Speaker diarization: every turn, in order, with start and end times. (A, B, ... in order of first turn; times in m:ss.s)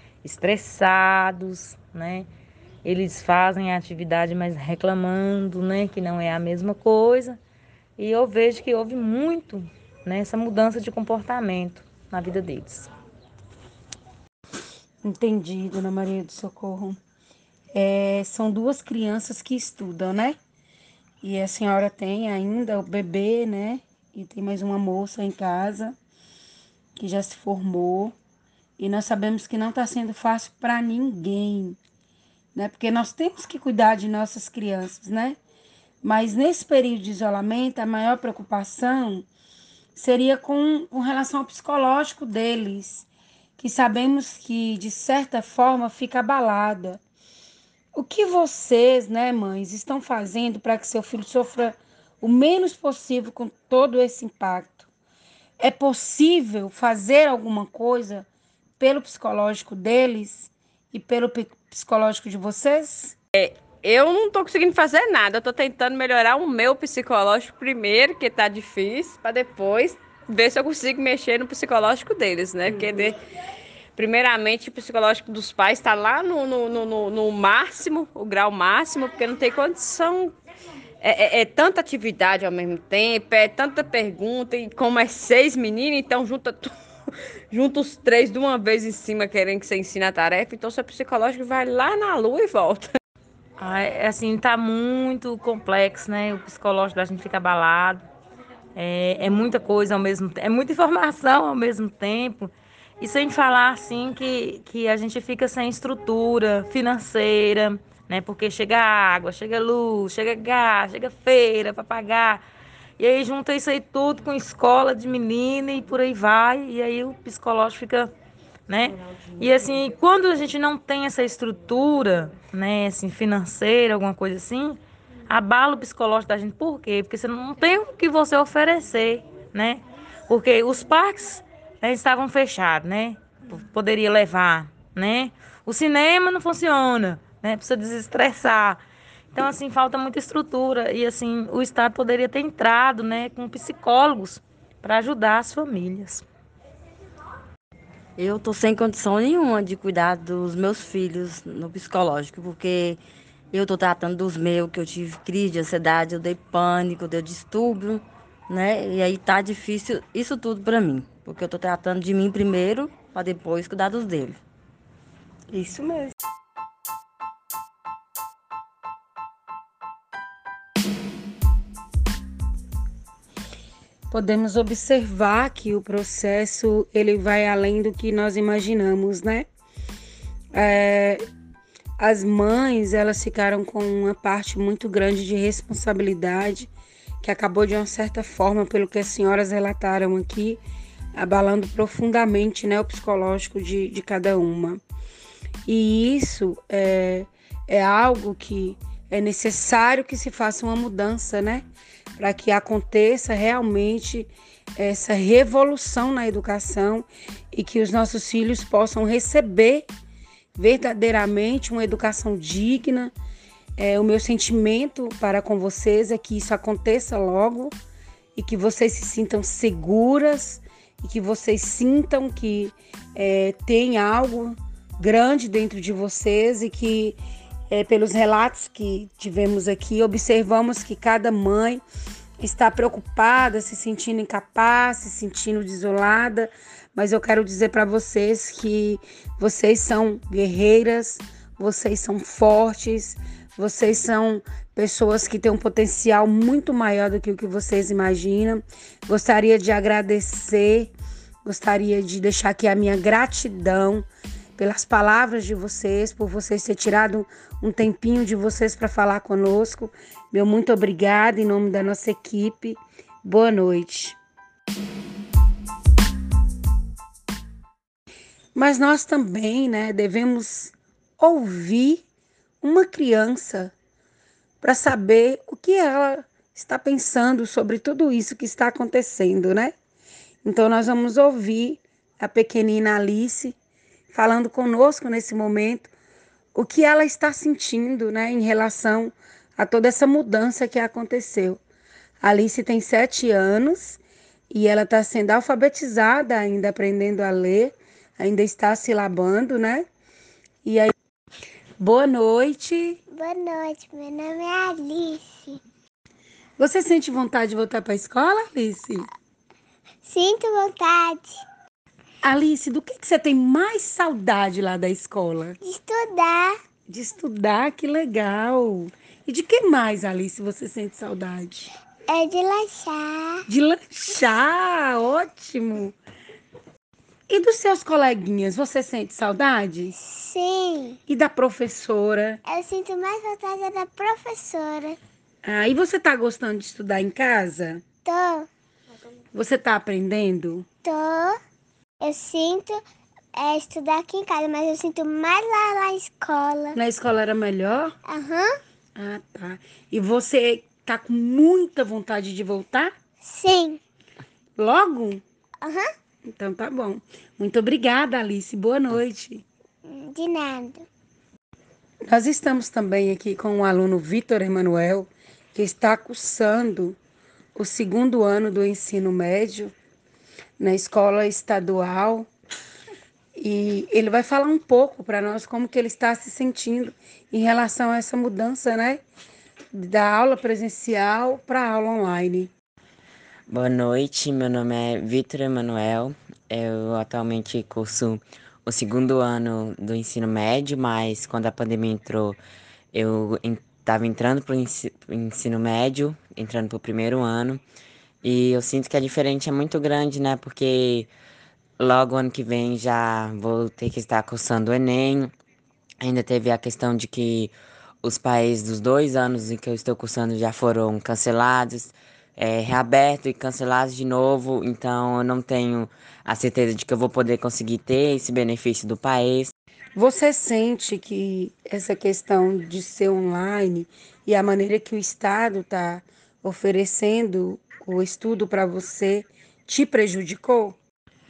0:00.2-0:02.3 A
0:02.8-0:07.4 A
0:08.0-0:12.9 A
0:15.0-0:17.0 B
0:17.7-0:20.4 B
0:21.2-0:26.0 B
0:27.0-0:28.2 B
0:28.8-0:31.8 B
0:32.6-0:35.4 B
0:36.0-0:39.3 B
0:40.0-0:43.1 B
0:43.6-0:47.0 B
0:48.0-0:54.9 B
0:55.6-0:58.3 B
0:58.8-1:03.2 B
1:03.4-1:13.2 C
1:14.0-1:20.3 C
1:21.0-1:26.7 C
1:27.5-1:32.9 C
1:33.6-1:38.1 A
1:38.8-1:52.4 A
1:53.0-1:58.1 A
1:58.7-2:18.8 A
2:19.3-2:26.2 A
2:28.2-2:33.0 D
2:33.5-2:44.4 D
2:45.5-2:46.1 B
2:54.1-2:59.5 B
3:00.5-3:01.2 B
3:02.0-3:06.7 B
3:07.2-3:10.6 B
3:11.2-3:14.8 B
3:15.7-3:21.6 B
3:22.2-3:29.8 B
3:30.6-3:33.1 B
3:33.8-3:37.8 B
3:38.4-3:47.2 B
3:47.7-3:51.8 B
3:52.4-4:10.9 B
4:11.4-4:24.2 B
4:28.6-4:32.0 B
4:32.6-4:33.7 B
4:34.6-4:39.8 B
4:40.4-4:43.6 B
4:44.1-4:45.9 B
4:46.6-4:51.6 B
4:52.2-4:54.0 B
4:54.5-4:59.9 B
5:00.6-5:00.9 B
5:01.8-5:03.0 B
5:03.1-5:05.6 E
5:06.6-5:09.1 B
5:10.0-5:11.4 E
5:12.2-5:15.6 B
5:15.6-5:16.6 E
5:16.9-5:21.7 B
5:22.1-5:23.4 E
5:23.5-5:26.0 B
5:27.3-5:30.0 B
5:30.0-5:31.0 E
5:31.1-5:32.4 B
5:32.5-5:35.0 E
5:35.4-5:37.8 B
5:38.0-5:38.5 E
5:39.3-5:40.7 B
5:40.8-5:41.4 E
5:42.0-5:42.8 E
5:43.4-5:46.8 E
5:46.8-5:48.0 B
5:48.1-5:48.6 E
5:49.0-5:52.9 B
5:53.2-5:53.8 E
5:54.6-5:55.2 B
5:55.6-5:55.9 E
5:56.2-5:59.4 B
5:59.9-6:00.9 E
6:02.1-6:07.0 B
6:07.6-6:09.7 B
6:10.6-6:12.3 B
6:13.4-6:19.0 B
6:19.7-6:22.5 B
6:23.5-6:32.4 F
6:32.9-6:37.6 F
6:38.2-6:41.1 F
6:41.8-6:45.3 F
6:46.0-6:59.5 F
7:00.0-7:10.8 B